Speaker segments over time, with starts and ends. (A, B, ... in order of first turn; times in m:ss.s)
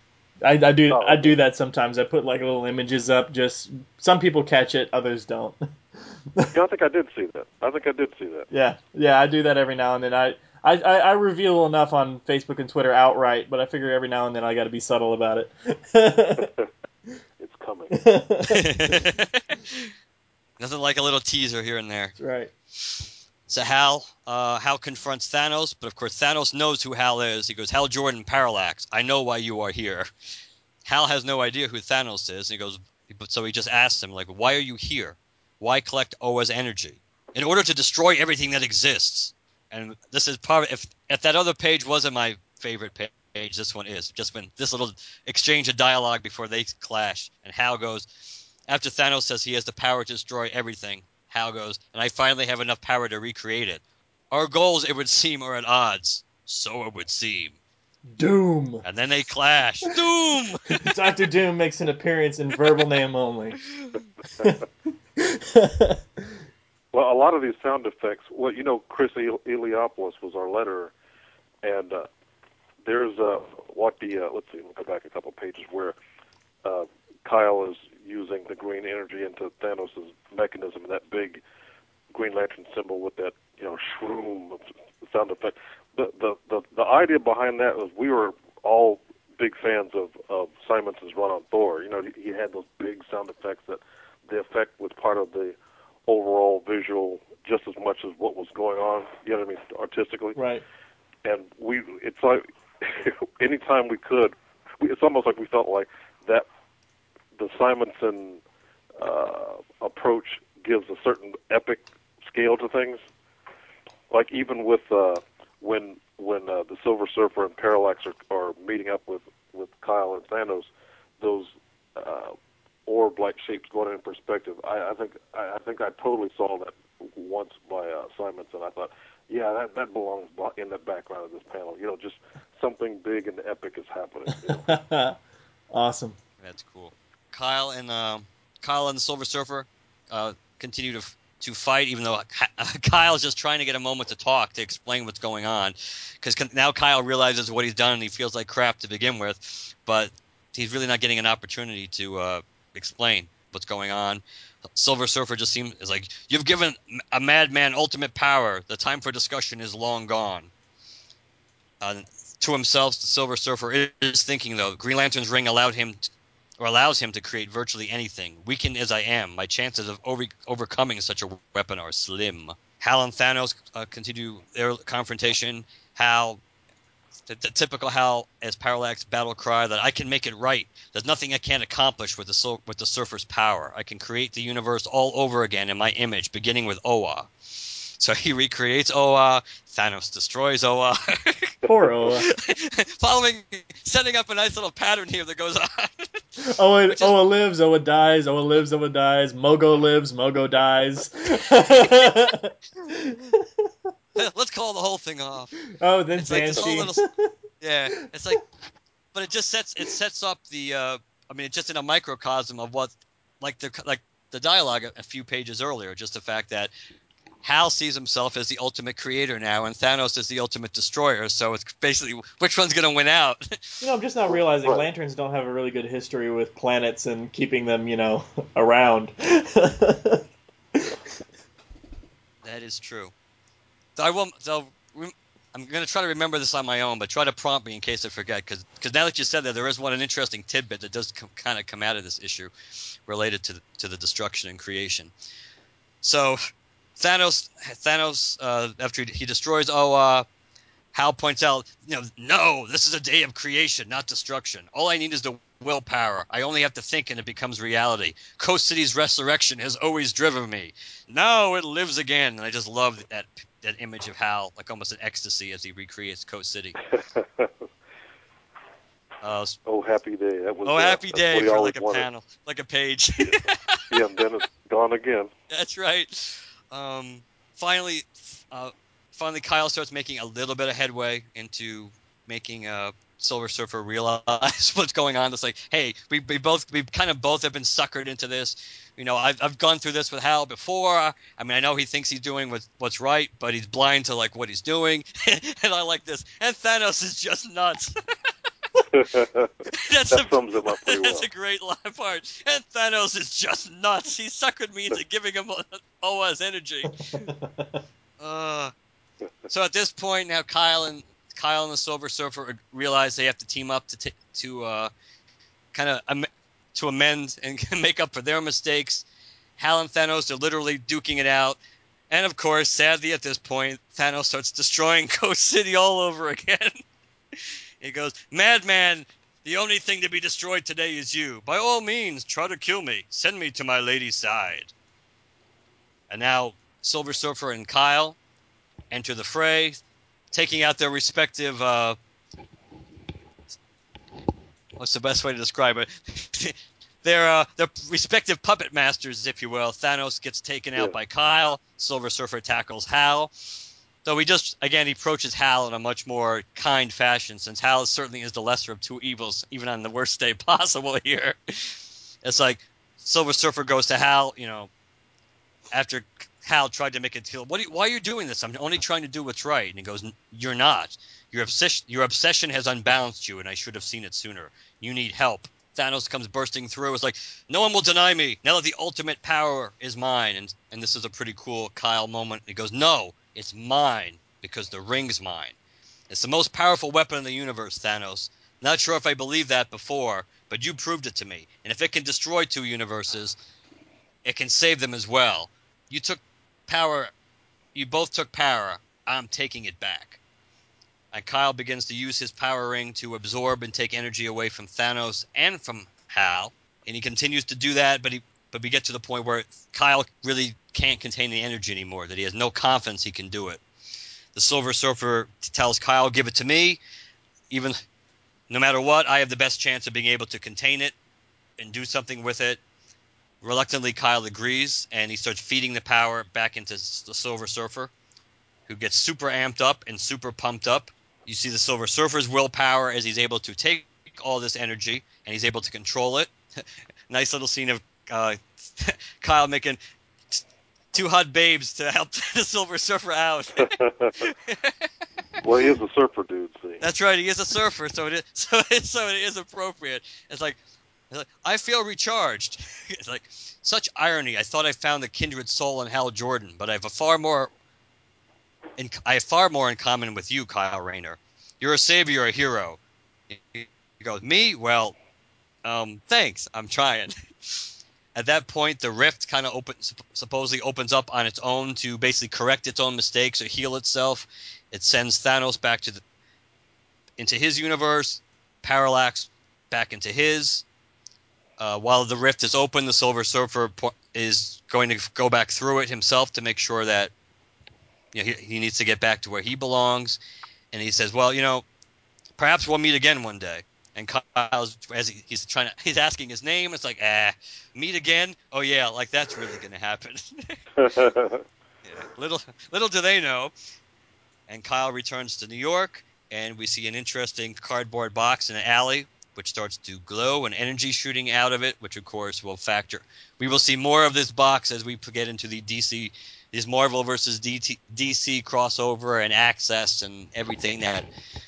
0:00.4-0:06.5 A
0:00.9-0:01.4 B
0:06.5-0:08.5 B
0:08.5-0:16.5 A
0:17.4-0:18.0 B
0:17.9-0:19.0 A
0:18.4-0:19.9 C
0:20.6-0:22.1 C
0:22.2-0:22.5 A
0:22.8-0:30.1 C
0:30.8-0:48.0 C
0:48.7-0:57.6 C
0:58.1-0:58.8 A
0:58.8-1:01.0 C
1:00.7-1:03.6 A
1:05.2-1:06.3 A
1:06.9-1:10.9 B
1:11.6-1:12.1 B
1:12.8-1:15.9 B
1:16.6-1:21.4 B
1:22.1-1:35.5 B
1:36.1-1:40.4 B
1:40.4-1:40.6 A
1:41.2-1:46.4 B
1:47.4-1:48.4 B
1:49.0-1:53.0 B
1:54.1-2:02.3 B
2:02.8-2:14.7 B
2:14.4-2:15.2 A
2:15.7-2:16.2 A
2:16.4-2:34.2 C
2:34.7-2:40.5 C
2:41.8-2:56.4 C
2:57.3-3:17.2 C
3:11.6-3:12.3 A
3:16.4-3:23.7 A
3:24.2-3:25.6 C
3:25.7-3:27.3 A
3:26.2-3:27.0 C
3:27.6-3:28.4 C
3:29.1-3:36.7 C
3:37.4-3:43.8 C
3:43.8-3:50.2 A
3:52.4-3:53.1 C
3:54.0-4:02.5 C
4:03.1-4:05.1 C
4:06.0-4:06.4 C
4:07.0-4:10.2 C
4:10.9-4:26.8 C
4:26.9-4:27.7 B
4:29.2-4:29.6 C
4:29.6-4:32.1 B
4:30.6-4:33.8 C
4:33.9-4:35.3 B
4:35.5-4:57.9 C
4:58.9-4:59.5 B
4:59.7-5:07.3 C
5:00.1-5:01.3 B
5:07.1-5:07.8 A
5:08.2-5:08.7 C
5:09.5-5:14.9 C
5:15.7-5:19.0 C
5:19.6-5:21.6 C
5:22.1-5:26.8 C
5:27.4-5:34.7 C
5:36.1-5:38.2 C
5:38.9-5:39.8 C
5:40.3-5:42.0 C
5:44.8-5:53.3 C
5:54.0-6:04.7 C
6:05.7-6:25.6 C
6:26.1-6:33.4 C
6:34.2-6:37.1 C
6:37.7-6:40.2 C
6:41.1-6:53.6 C
6:54.3-6:56.8 C
6:57.5-6:57.8 C
6:58.5-7:00.9 C
7:01.6-7:02.6 C
7:03.4-7:07.9 C
7:08.7-7:19.8 C
7:20.3-7:24.8 C
7:23.6-7:24.2 B
7:25.4-7:26.8 B
7:26.8-7:30.6 C
7:31.1-7:37.5 C
7:38.8-7:42.8 C
7:43.3-7:44.9 C
7:45.6-7:56.0 C
7:57.2-8:00.6 C
8:01.6-8:07.1 C
8:08.1-8:10.2 C
8:10.7-8:11.6 C
8:12.4-8:20.6 C
8:20.8-8:21.4 B
8:21.8-8:23.5 C
8:24.5-8:41.1 C